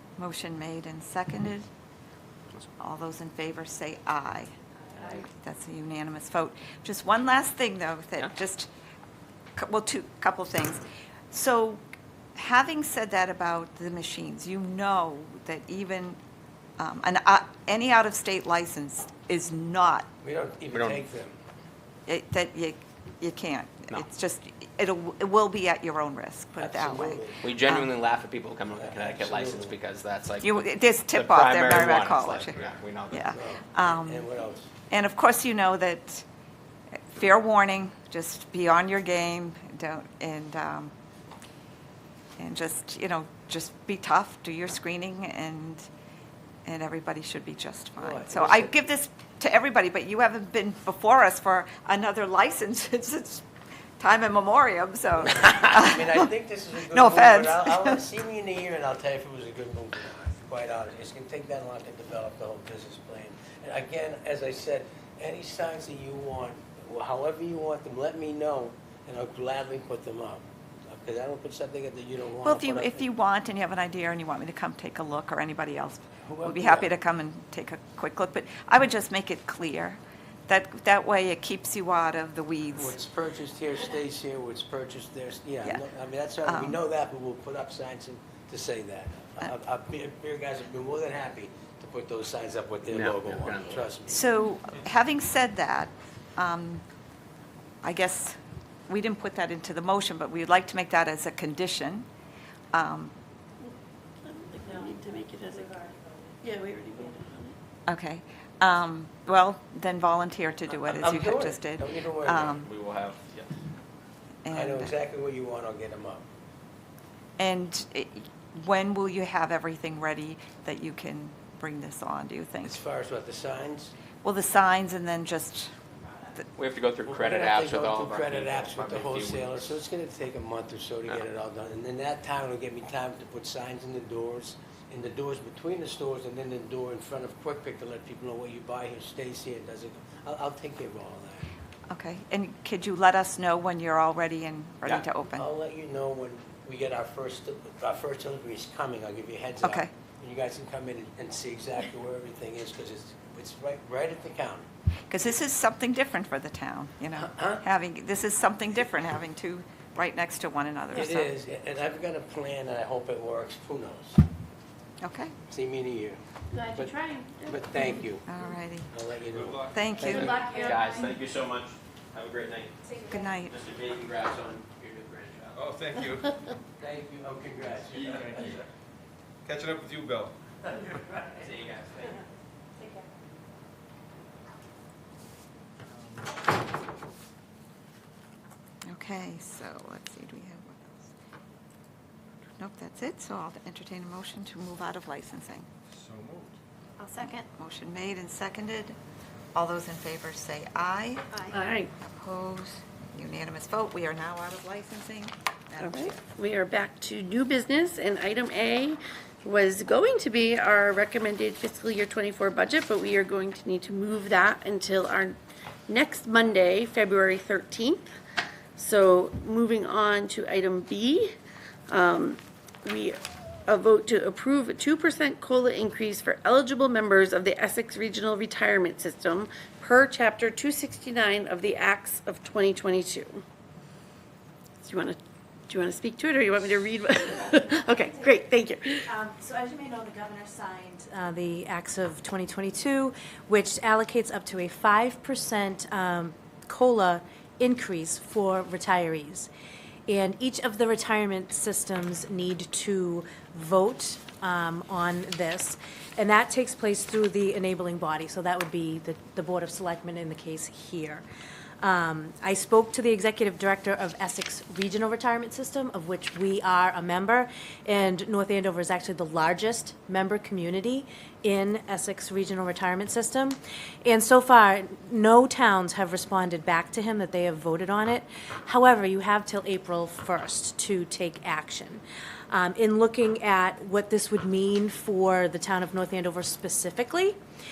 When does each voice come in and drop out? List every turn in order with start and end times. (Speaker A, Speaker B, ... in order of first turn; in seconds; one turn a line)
Speaker A: 0.1-1.7
Speaker A: 2.8-4.5
Speaker B: 5.0-5.2
Speaker A: 5.1-8.7
Speaker A: 9.6-11.8
Speaker A: 12.3-16.2
Speaker A: 16.8-20.1
Speaker C: 20.2-21.4
Speaker D: 20.7-21.0
Speaker A: 22.1-27.9
Speaker C: 26.6-27.5
Speaker D: 27.4-33.4
Speaker C: 28.7-29.8
Speaker A: 30.4-32.6
Speaker A: 33.1-34.3
Speaker C: 33.3-34.7
Speaker A: 34.9-36.2
Speaker A: 37.1-40.9
Speaker A: 42.4-45.8
Speaker A: 46.6-53.5
Speaker C: 48.0-48.7
Speaker A: 54.0-56.3
Speaker C: 55.4-73.0
Speaker A: 56.8-58.0
Speaker A: 72.4-82.9
Speaker C: 76.2-76.9
Speaker C: 82.7-94.2
Speaker A: 86.4-86.8
Speaker D: 92.9-93.8
Speaker A: 94.1-96.8
Speaker A: 97.8-98.4
Speaker A: 98.9-102.0
Speaker A: 102.7-103.1
Speaker B: 104.2-105.8
Speaker E: 104.7-106.3
Speaker B: 106.4-107.6
Speaker A: 107.9-112.7
Speaker C: 110.8-112.6
Speaker D: 112.5-113.5
Speaker A: 114.4-115.0
Speaker C: 114.5-116.2
Speaker A: 117.4-122.8
Speaker C: 122.6-123.9
Speaker A: 124.2-125.7
Speaker D: 126.5-129.8
Speaker C: 127.0-141.4
Speaker A: 141.9-145.5
Speaker C: 145.3-154.6
Speaker A: 149.6-149.9
Speaker A: 155.1-161.3
Speaker C: 157.1-157.6
Speaker C: 160.9-164.2
Speaker A: 165.0-165.3
Speaker C: 165.5-166.2
Speaker B: 166.5-168.2
Speaker C: 166.7-168.2
Speaker A: 168.2-168.9
Speaker C: 168.9-169.7
Speaker F: 169.3-170.3
Speaker A: 169.7-170.6
Speaker D: 169.9-175.6
Speaker B: 170.1-171.2
Speaker A: 173.1-173.5
Speaker F: 175.5-176.5
Speaker C: 176.8-178.6
Speaker F: 177.9-178.6
Speaker F: 179.4-180.3
Speaker C: 180.7-181.5
Speaker D: 181.4-182.2
Speaker A: 188.9-191.1
Speaker A: 192.6-195.7
Speaker F: 195.9-196.6
Speaker B: 197.0-197.3
Speaker A: 197.5-198.9
Speaker A: 199.5-201.3
Speaker B: 201.5-201.9
Speaker A: 202.2-206.2
Speaker B: 205.8-215.3
Speaker B: 215.9-218.1
Speaker B: 218.8-221.2
Speaker B: 221.9-233.4
Speaker B: 234.8-235.2
Speaker B: 235.7-239.1
Speaker E: 237.9-238.3
Speaker E: 238.9-249.5
Speaker E: 250.1-261.2
Speaker E: 261.8-287.4